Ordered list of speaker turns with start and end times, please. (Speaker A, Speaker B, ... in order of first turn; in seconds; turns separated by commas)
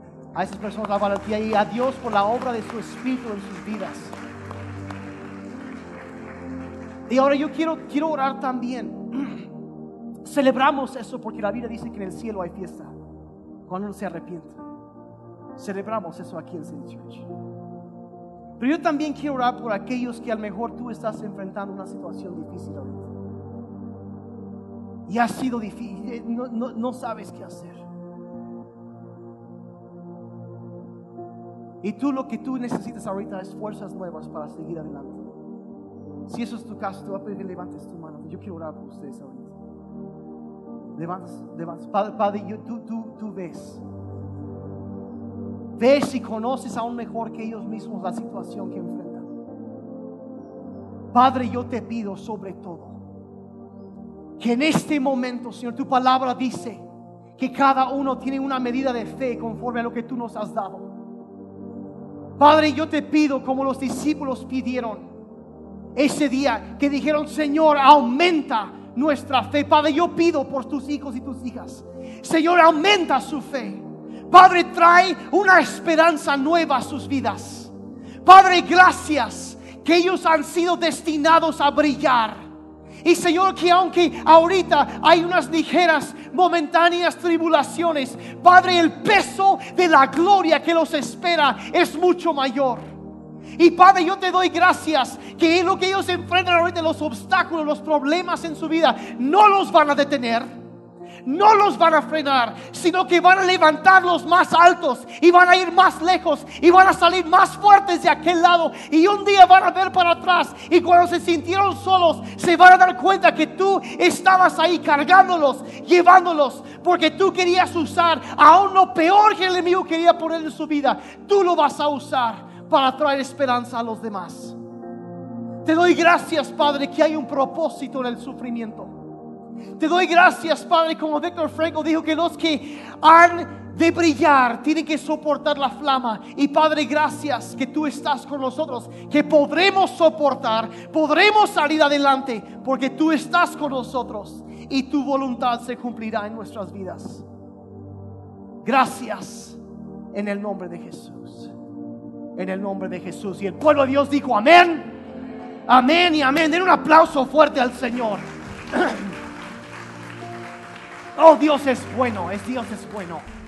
Speaker A: 0.3-4.2, Speaker A: 7.1-9.5, Speaker A: 10.2-12.9, Speaker A: 13.7-14.6, Speaker A: 15.6-17.3, Speaker A: 18.6-23.1, Speaker A: 25.1-27.8, Speaker A: 31.8-35.3, Speaker A: 36.3-39.6, Speaker A: 41.0-43.8, Speaker A: 45.8-49.3, Speaker A: 51.1-53.0, Speaker A: 54.4-56.8, Speaker A: 57.4-60.9, Speaker A: 62.4-65.1, Speaker A: 65.9-77.7, Speaker A: 78.2-82.5, Speaker A: 83.0-92.8, Speaker A: 93.5-100.5, Speaker A: 101.2-124.6, Speaker A: 125.6-128.9, Speaker A: 129.8-147.2, Speaker A: 148.6-149.6, Speaker A: 150.1-151.5, Speaker A: 152.3-154.9, Speaker A: 155.7-159.2, Speaker A: 161.2-163.2